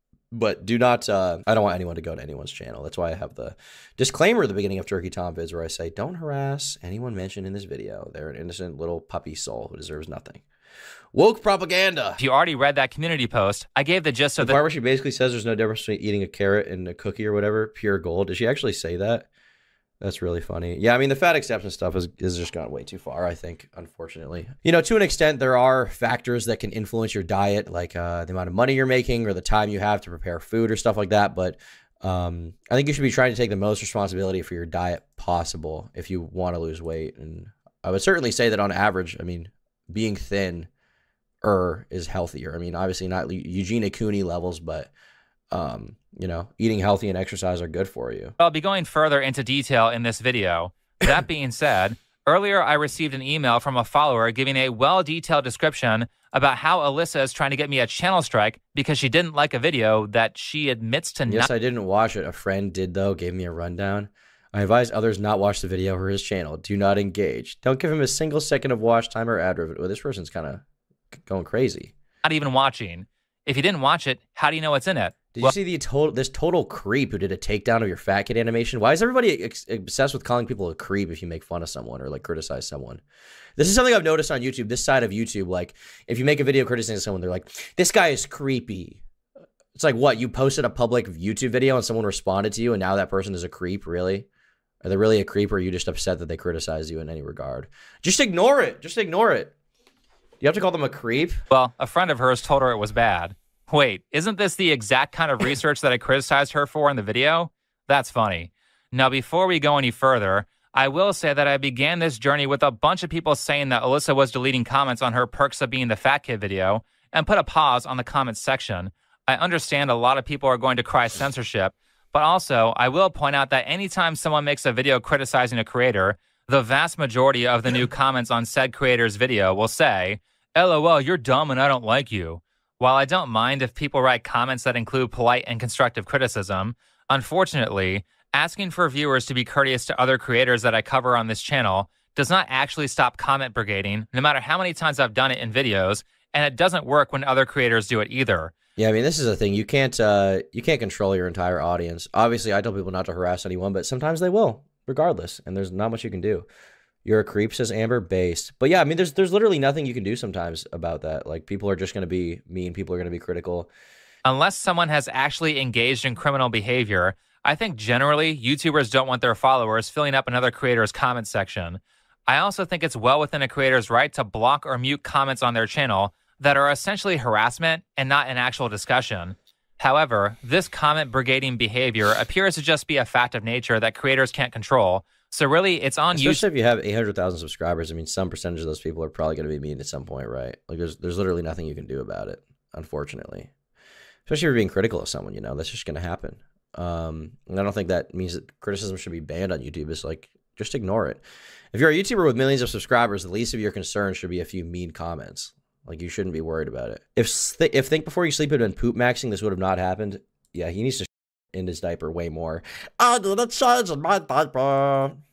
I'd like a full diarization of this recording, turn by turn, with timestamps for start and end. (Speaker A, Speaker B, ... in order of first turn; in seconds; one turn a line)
Speaker A: 0.3-10.4
Speaker A: 11.1-12.2
Speaker B: 12.2-14.6
Speaker A: 14.4-19.3
Speaker A: 20.0-40.7
Speaker A: 41.4-44.9
Speaker A: 45.5-48.3
Speaker B: 48.4-61.5
Speaker A: 61.3-70.6
Speaker A: 71.3-71.9
Speaker B: 72.2-75.5
Speaker A: 75.3-83.0
Speaker A: 83.6-89.0
Speaker A: 89.8-94.3
Speaker A: 94.8-99.5
Speaker A: 100.4-101.4
Speaker B: 101.5-148.5
Speaker A: 148.8-156.5
Speaker A: 157.1-163.7
Speaker B: 164.2-186.4
Speaker A: 186.1-193.5
Speaker A: 194.3-201.2
Speaker A: 201.7-215.2